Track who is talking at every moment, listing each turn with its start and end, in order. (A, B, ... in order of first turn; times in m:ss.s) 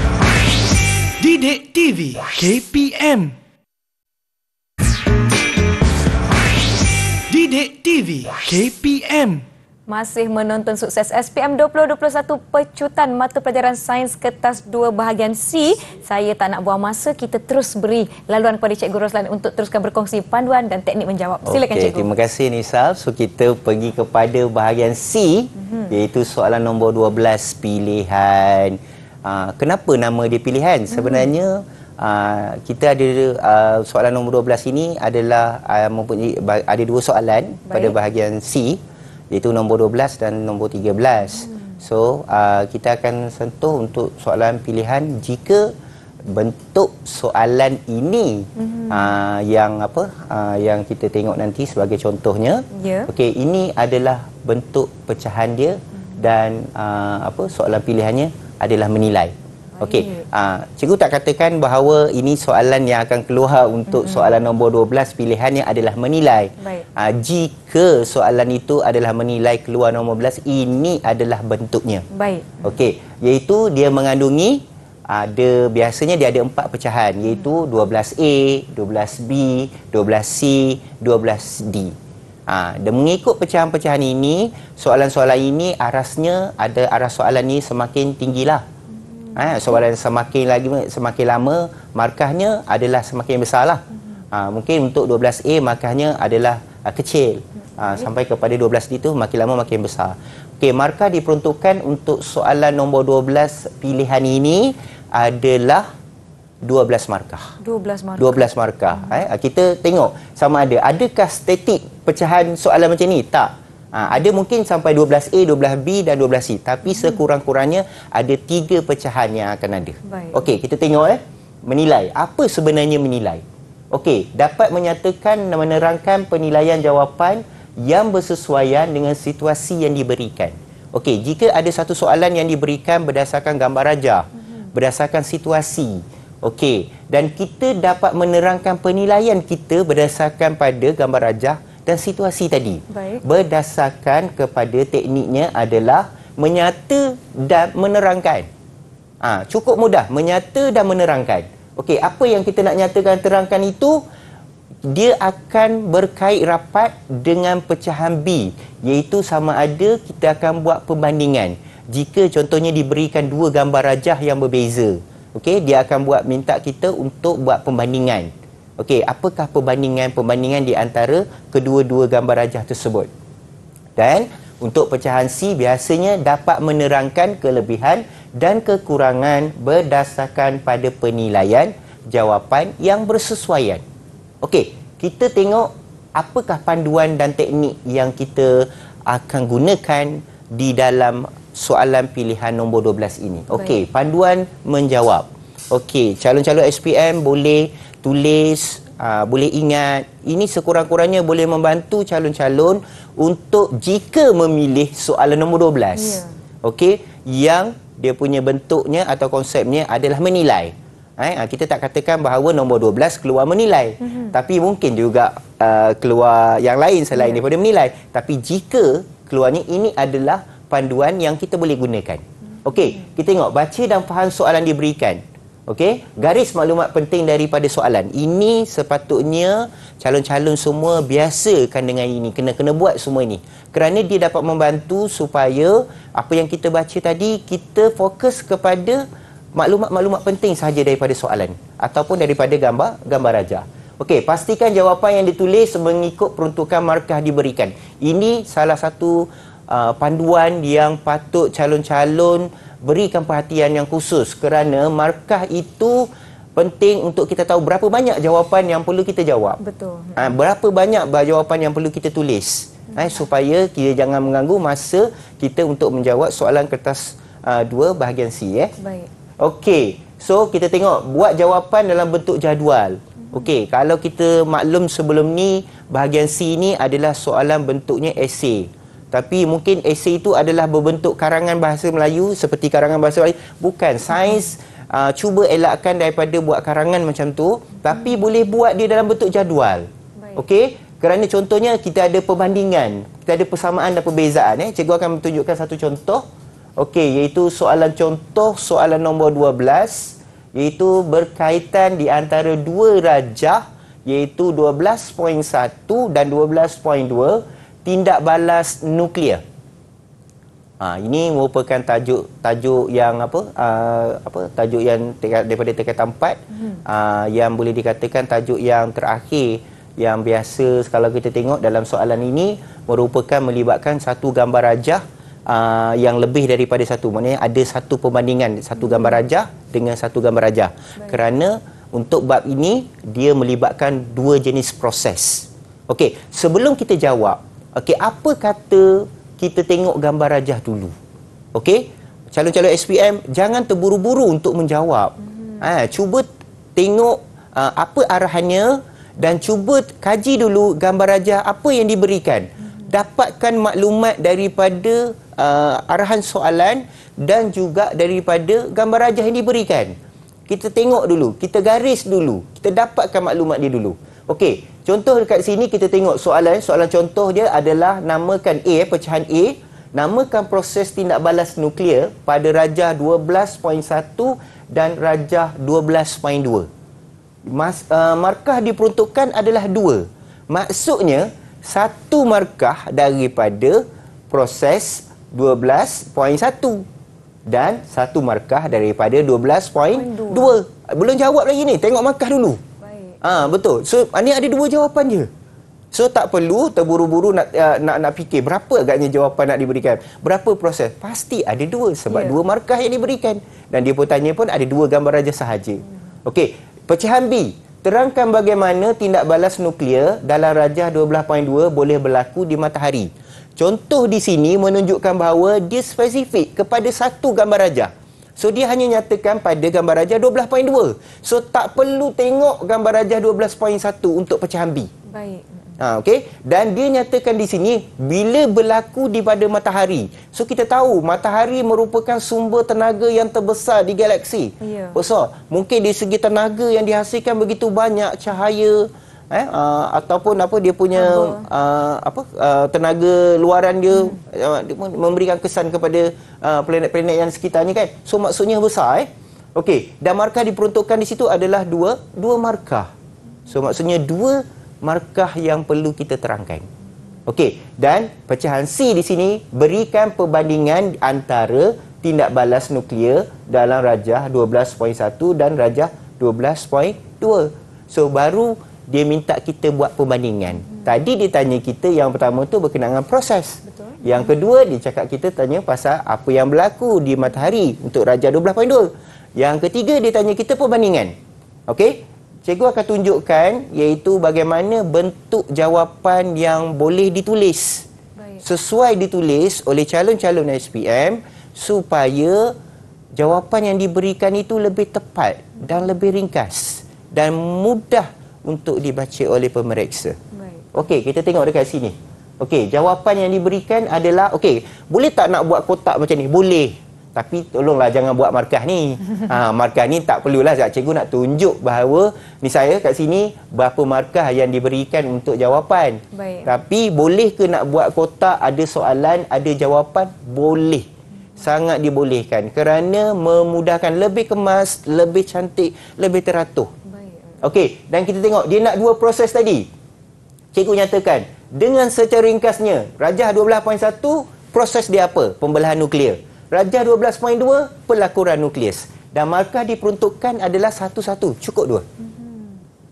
0:01.2-0:03.4 A
0:07.3-0:09.4 A
0:09.9-0:22.1 B
0:21.4-0:38.8 C
0:25.6-0:26.0 B
0:30.9-0:31.3 B
0:37.7-0:38.0 B
0:39.3-0:45.7 C
0:46.3-1:12.1 C
0:48.6-0:49.1 B
0:52.7-0:53.1 B
0:59.8-1:00.3 B
1:03.9-1:04.4 B
1:06.6-1:06.9 B
1:12.1-1:12.6 B
1:12.6-1:22.0 C
1:22.5-1:28.6 C
1:28.9-1:29.8 B
1:29.4-1:45.9 C
1:46.6-1:47.5 C
1:47.6-1:49.3 B
1:48.2-2:28.5 C
1:56.9-1:57.2 B
2:00.0-2:00.4 B
2:22.9-2:23.2 B
2:29.2-2:34.0 C
2:34.9-2:53.1 C
2:54.0-3:03.8 C
3:04.4-3:59.0 C
3:13.5-3:13.8 B
3:26.0-3:26.3 B
3:34.0-3:34.3 B
3:37.2-3:37.4 B
3:42.5-3:43.1 B
3:59.6-4:19.6 C
4:19.6-4:20.4 B
4:20.2-4:28.7 C
4:22.9-4:23.3 B
4:28.8-4:29.1 B
4:29.4-4:56.2 C
4:44.2-4:44.5 B
4:56.8-5:09.4 C
5:10.8-5:41.0 C
5:16.5-5:16.8 B
5:28.8-5:29.2 B
5:41.6-6:00.0 C
5:45.2-5:45.7 B
6:00.5-6:16.7 C
6:17.5-6:26.9 C
6:27.5-6:32.6 C
6:29.9-6:30.6 B
6:32.8-6:33.2 B
6:33.2-6:35.3 C
6:35.9-7:04.9 C
6:42.1-6:42.4 B
7:05.1-7:05.8 B
7:05.8-7:32.9 C
7:14.6-7:15.0 B
7:20.9-7:21.5 B
7:23.9-7:24.2 B
7:33.5-7:36.7 C
7:37.3-8:01.2 C
7:53.7-7:54.3 B
8:01.7-8:07.9 C
8:08.2-8:08.4 B
8:08.4-8:12.6 C
8:13.2-8:20.2 C
8:20.3-8:20.7 B
8:20.7-8:46.7 C
8:36.1-8:36.6 B
8:46.8-8:47.5 B
8:47.4-8:49.7 C
8:50.5-9:01.9 C
9:02.0-9:02.6 B